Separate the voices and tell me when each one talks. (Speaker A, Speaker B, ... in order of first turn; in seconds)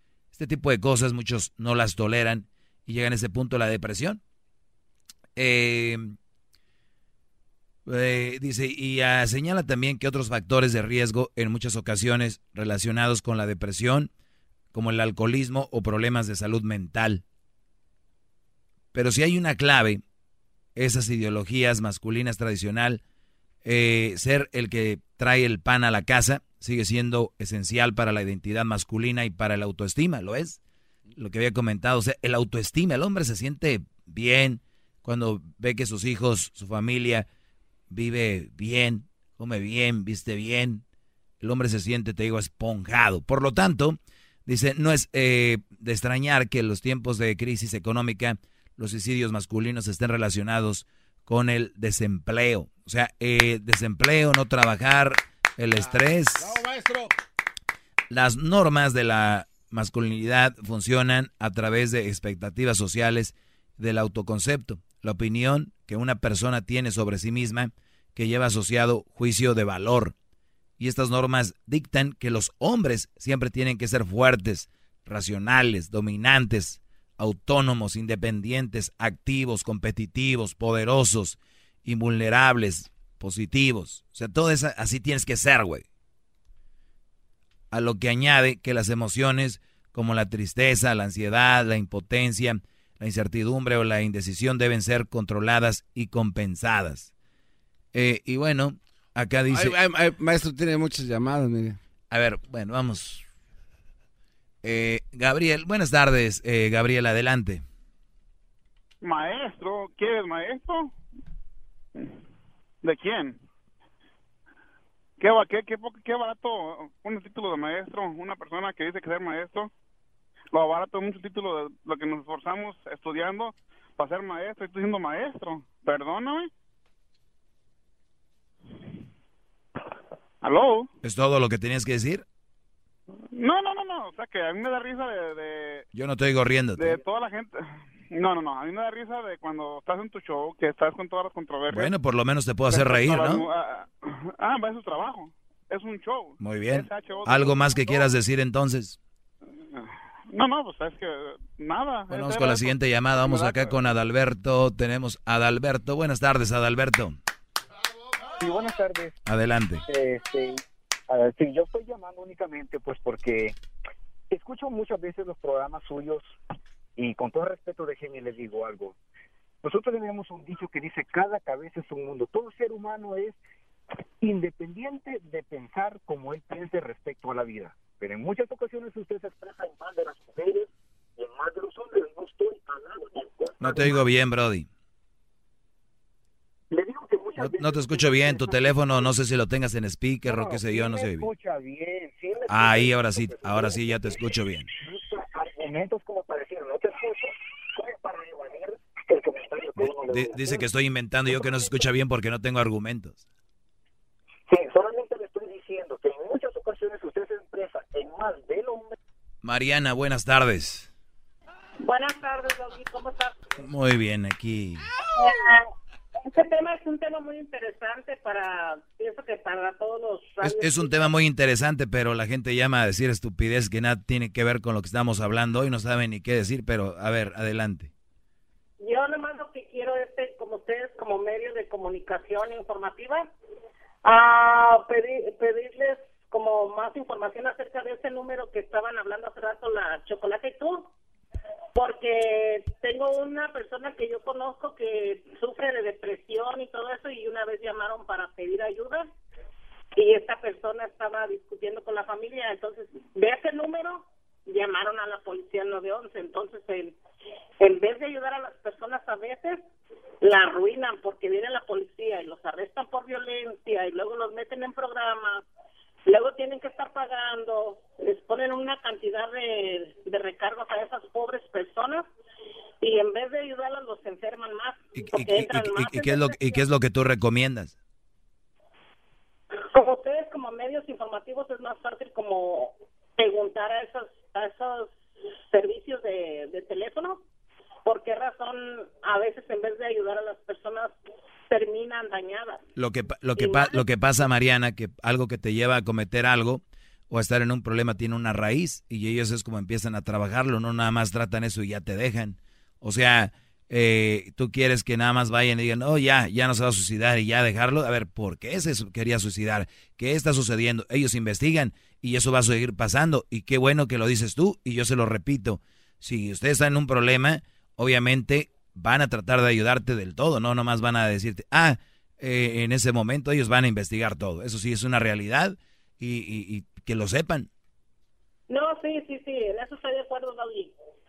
Speaker A: 0.3-4.2, 5.4-6.2, 7.9-14.1, 14.7-17.2, 18.9-20.0, 20.8-23.0, 23.6-30.6, 31.2-37.3, 37.9-40.8, 41.4-56.6, 58.1-70.2, 70.8-85.9, 87.7-97.1, 97.9-99.8, 102.1-103.2, 104.6-107.6, 131.0-132.2, 135.9-137.0, 141.7-143.4, 146.4-149.0, 152.1-157.2, 159.3-159.8, 183.6-184.7, 187.4-191.3, 192.5-194.7, 199.8-203.2, 209.4-210.9, 213.6-214.9, 220.4-227.9, 274.9-277.8, 292.8-327.5
Speaker B: 55.8-57.1, 99.5-101.8
Speaker C: 109.0-111.0, 112.8-113.4, 115.2-119.7, 120.5-126.5, 130.4-130.9, 133.3-135.9, 136.8-141.9, 142.7-148.2, 149.7-153.9
Speaker D: 158.4-159.2, 159.8-163.6, 164.3-166.4, 167.0-169.0, 169.6-173.4, 174.2-184.1, 186.7-189.1, 190.3-200.7, 201.3-201.8, 204.5-209.0
Speaker E: 211.8-213.4, 215.1-215.7, 216.2-221.1, 228.8-233.3, 234.0-240.9, 241.8-249.1, 249.9-257.0, 257.6-259.6, 260.2-265.5, 266.1-272.1, 272.8-276.6, 279.7-285.0, 285.5-287.2, 287.9-290.9, 291.5-292.6, 293.4-293.8, 328.5-330.7